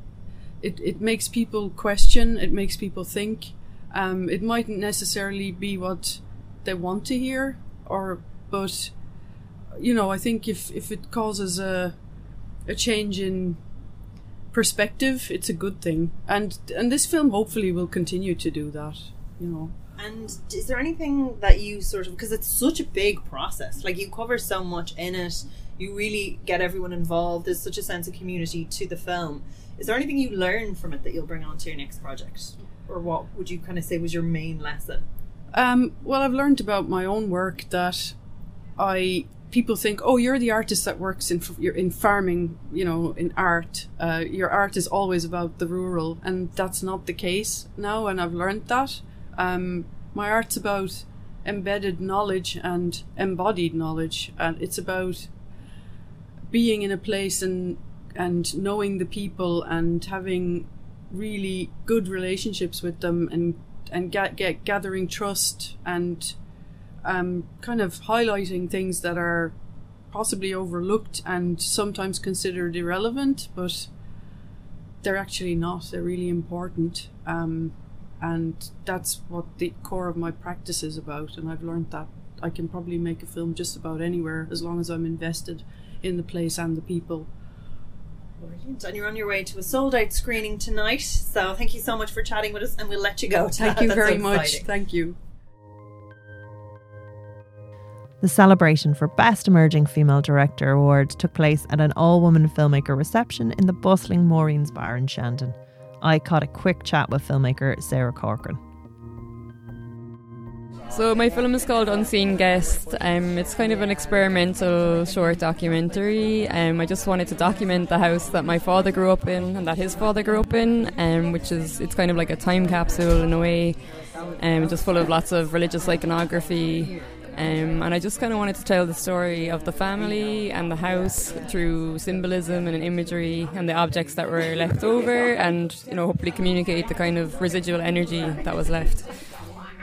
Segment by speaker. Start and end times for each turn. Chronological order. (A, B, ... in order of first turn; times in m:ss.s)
0:00.6-0:08.9 A
0:09.7-0:12.0 A
0:12.7-0:13.6 A
0:14.5-0:19.7 A
0:20.0-0:35.0 B
0:35.5-0:38.2 A
0:38.8-0:55.3 A
0:56.5-1:06.4 A
1:07.0-1:09.6 A
1:10.1-1:13.9 A
1:15.0-1:27.3 A
1:28.4-1:34.7 B
1:33.6-1:35.2 A
1:38.2-1:48.6 C
1:50.9-2:19.2 D